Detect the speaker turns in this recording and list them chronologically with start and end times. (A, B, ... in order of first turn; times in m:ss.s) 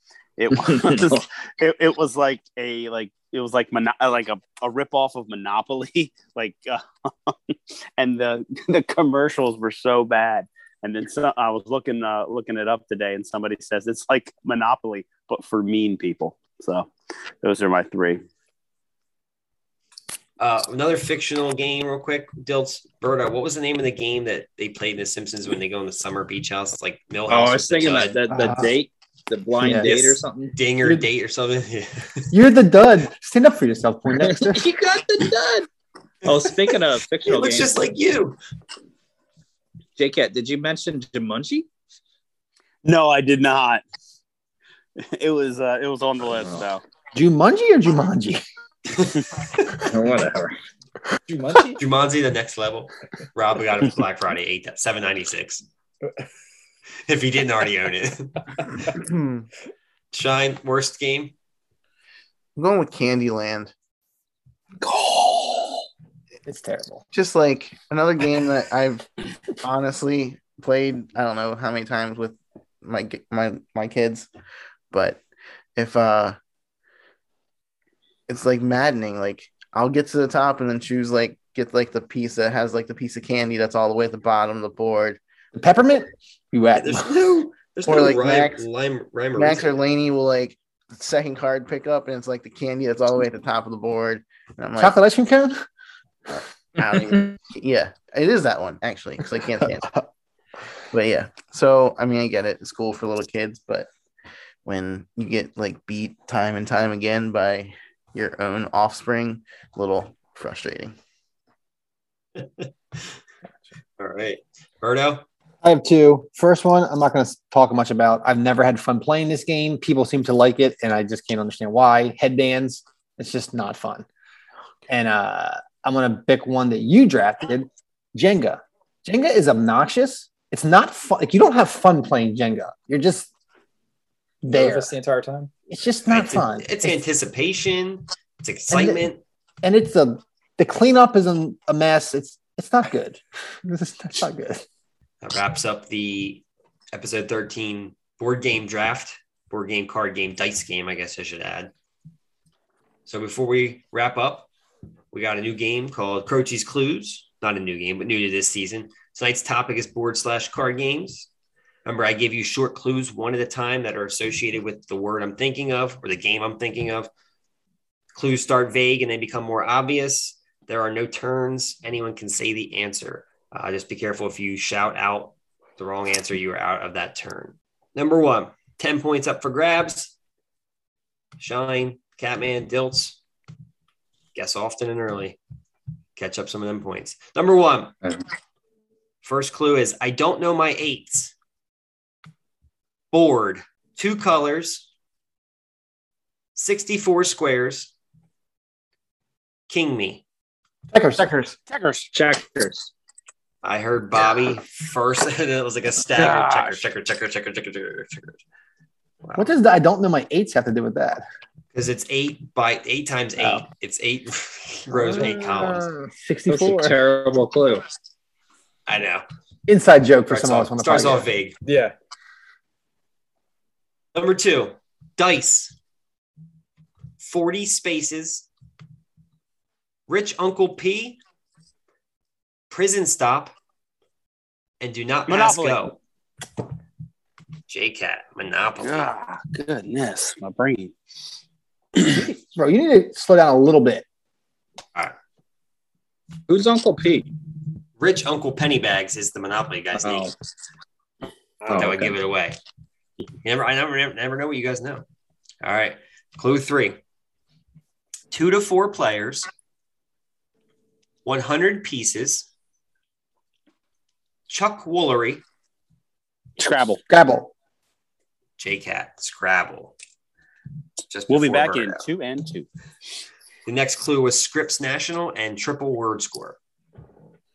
0:00.4-0:16.9 A
0:00.5-0:01.2 B
0:17.4-0:18.2 A
0:20.4-0:28.2 C
0:27.3-0:30.6 B
0:28.3-0:28.7 D
0:29.6-0:30.2 D
0:30.5-0:32.3 C
0:32.3-0:34.6 D
0:34.2-0:35.7 B
0:36.3-0:37.8 B
0:36.3-0:38.4 C
0:40.0-0:41.7 B
0:42.8-0:43.8 A
0:45.1-0:46.8 A
0:46.4-0:46.6 B
0:47.1-0:48.4 D
0:49.8-0:50.6 B
0:51.3-0:51.8 E
0:51.8-0:55.6 C
0:57.1-0:58.8 C
0:58.9-0:59.5 F
1:00.1-1:01.3 C
1:02.6-1:03.7 F
1:04.8-1:05.8 A
1:06.5-1:07.0 D
1:07.1-1:09.1 F
1:09.6-1:14.3 F
1:14.9-1:15.2 F
1:15.8-1:16.4 F
1:18.3-1:25.2 F
1:25.5-1:27.1 D
1:26.8-1:29.8 C
1:27.9-1:28.6 F
1:29.4-1:35.0 F
1:34.8-1:35.6 D
1:36.3-1:40.0 F
1:40.9-1:43.9 F
1:44.6-1:51.0 F
1:54.0-1:55.2 C
1:55.6-2:04.1 D
2:04.9-2:13.3 D
2:14.4-2:14.9 D
2:14.5-2:15.5 E
2:15.7-2:17.0 D
2:16.1-2:19.2 C
2:18.7-2:19.1 D
2:19.6-2:24.6 D
2:25.2-2:31.7 C
2:33.1-2:34.5 C
2:35.1-2:41.3 C
2:41.8-2:47.1 C
2:48.1-3:00.1 C
3:01.4-3:03.2 C
3:04.4-3:05.4 C
3:06.2-3:08.1 C
3:09.2-3:11.3 C
3:13.1-3:14.9 C
3:16.6-3:17.9 C
3:19.7-3:20.2 C
3:20.9-3:21.6 D
3:21.7-3:22.1 A
3:22.1-3:22.9 B
3:23.6-3:28.4 C
3:26.2-3:26.8 A
3:29.2-3:29.5 C
3:29.4-3:31.2 D
3:31.7-3:35.9 C
3:33.4-3:33.6 D
3:34.9-3:37.0 D
3:36.5-3:37.9 B
3:38.9-3:39.2 C
3:39.7-3:41.3 D
3:40.3-3:41.6 C
3:41.6-3:41.9 E
3:44.2-3:45.7 C
3:47.2-3:48.5 C
3:50.1-3:51.2 C
3:52.7-3:53.5 C
3:54.8-3:56.0 C
3:55.3-3:55.9 A
3:57.7-3:59.1 C
3:58.8-4:01.0 A
4:02.0-4:02.2 A
4:02.0-4:04.0 D
4:06.5-4:07.3 B
4:08.0-4:10.3 C
4:10.0-4:10.3 B
4:11.6-4:12.6 C
4:11.7-4:12.2 B
4:13.4-4:15.0 C
4:15.6-4:17.0 C
4:18.3-4:19.5 C
4:21.2-4:22.5 C
4:24.5-4:25.4 C
4:26.6-4:27.0 A
4:27.1-4:27.5 D
4:28.6-4:29.9 C
4:31.1-4:32.0 C
4:31.3-4:32.7 A
4:33.7-4:36.6 C